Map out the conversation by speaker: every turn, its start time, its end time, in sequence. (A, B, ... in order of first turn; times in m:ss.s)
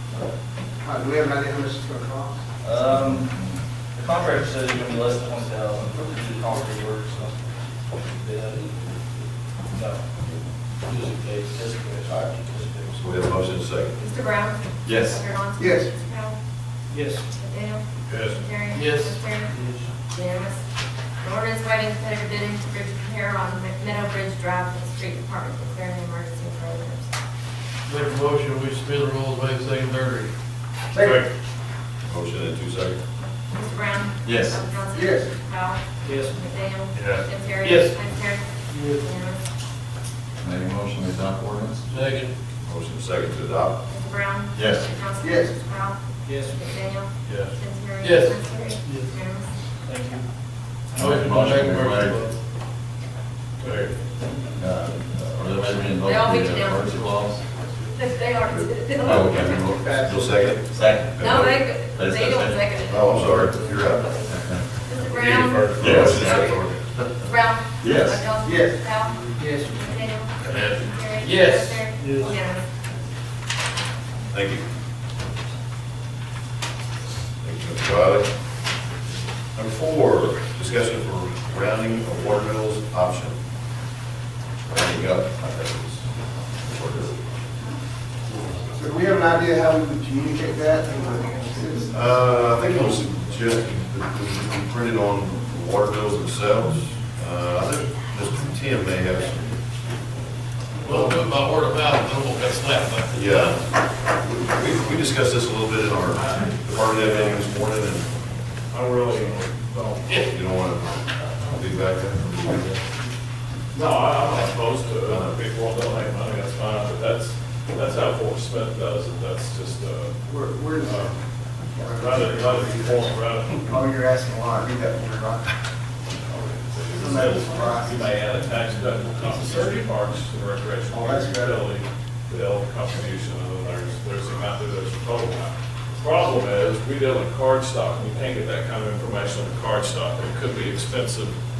0:00.8-0:02.5 A
0:02.6-0:10.0 B
0:03.1-0:03.4 C
0:10.8-0:13.1 B
0:13.0-0:14.0 D
0:14.0-0:16.4 E
0:14.8-0:15.2 C
0:15.6-0:15.9 A
0:16.9-0:17.3 B
0:17.3-0:17.8 E
0:18.0-0:18.4 F
0:18.4-0:19.5 E
0:18.6-0:19.4 G
0:19.4-0:19.9 B
0:20.1-0:20.6 E
0:21.2-0:27.1 E
0:27.9-0:30.3 G
0:30.9-0:31.2 A
0:31.0-0:31.2 F
0:32.0-0:33.0 D
0:33.5-0:35.8 E
0:34.2-0:34.6 C
0:34.9-0:35.3 A
0:36.0-0:36.4 B
0:36.4-0:39.4 E
0:36.9-0:39.1 G
0:40.4-0:41.9 C
0:41.9-0:42.3 G
0:42.6-0:43.8 D
0:43.9-0:46.0 E
0:44.5-0:44.9 C
0:45.2-0:45.5 A
0:46.2-0:46.6 B
0:46.6-0:49.5 E
0:48.0-0:49.2 G
0:49.8-0:50.2 B
0:50.9-0:52.4 G
0:50.9-0:52.3 C
0:53.6-0:53.9 F
0:54.6-0:57.4 C
0:56.0-0:57.2 E
0:57.9-0:59.7 E
0:58.5-1:01.6 D
0:59.0-0:59.6 C
0:59.5-1:00.8 A
1:00.7-1:01.2 C
1:01.2-1:06.6 E
1:01.9-1:02.6 C
1:02.9-1:04.2 D
1:03.0-1:03.4 G
1:03.2-1:03.6 C
1:04.3-1:04.6 C
1:05.1-1:06.4 F
1:05.2-1:05.8 G
1:05.8-1:06.6 C
1:05.8-1:06.5 D
1:07.2-1:12.8 E
1:07.8-1:08.2 C
1:08.4-1:08.8 A
1:09.4-1:09.8 B
1:10.6-1:12.3 G
1:12.0-1:12.3 B
1:14.3-1:14.6 D
1:17.4-1:18.3 D
1:19.5-1:23.4 D
1:24.7-1:26.1 D
1:26.6-1:27.1 D
1:28.8-1:31.9 A
1:31.9-1:39.4 D
1:40.8-1:43.2 G
1:43.1-1:48.1 D
1:46.0-1:47.5 F
1:48.7-1:50.1 F
1:50.2-1:52.8 D
1:53.7-2:00.2 F
1:55.0-1:55.4 D
2:00.2-2:05.5 A
2:00.8-2:01.1 F
2:01.8-2:03.7 F
2:06.2-2:21.4 F
2:06.9-2:08.2 A
2:10.9-2:11.6 A